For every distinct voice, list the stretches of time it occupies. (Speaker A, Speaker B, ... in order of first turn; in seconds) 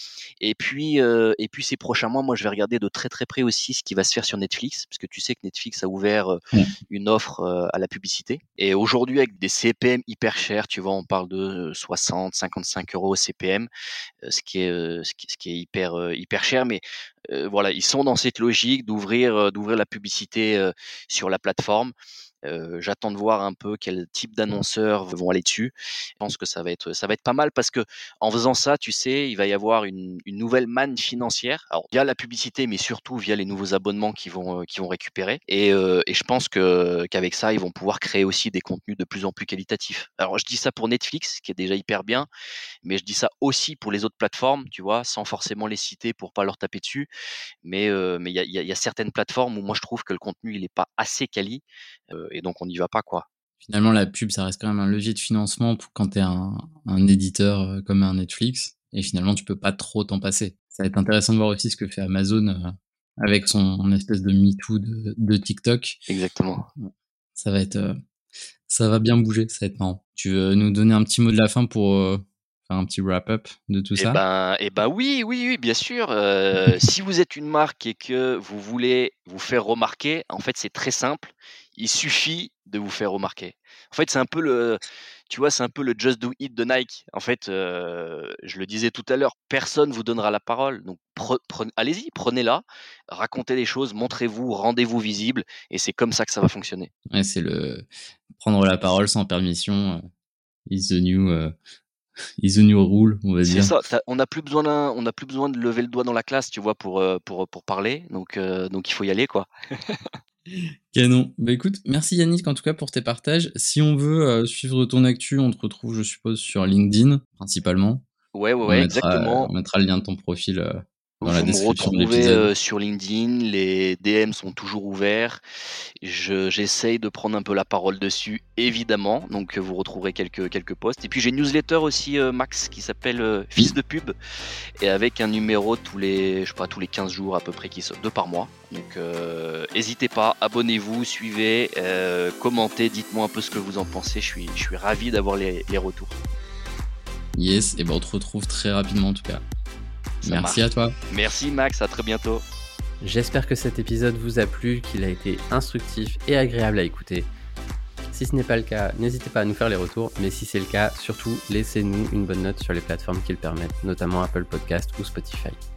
Speaker A: 0.4-6.4, 6.9-13.7, 14.2-42.3, 42.8-47.1, 47.6-53.3, 66.1-66.7, 74.0-96.9, 103.5-110.1, 118.3-119.5, 121.2-125.4, 126.0-134.1, 134.8-146.2, 150.2-152.4
Speaker B: 53.6-66.0, 66.8-68.0, 68.7-74.2, 97.1-100.0, 100.7-101.5, 102.4-103.7, 110.5-118.0, 118.7-122.5, 147.3-149.4, 150.2-150.9
Speaker C: 153.0-157.3, 158.1-165.6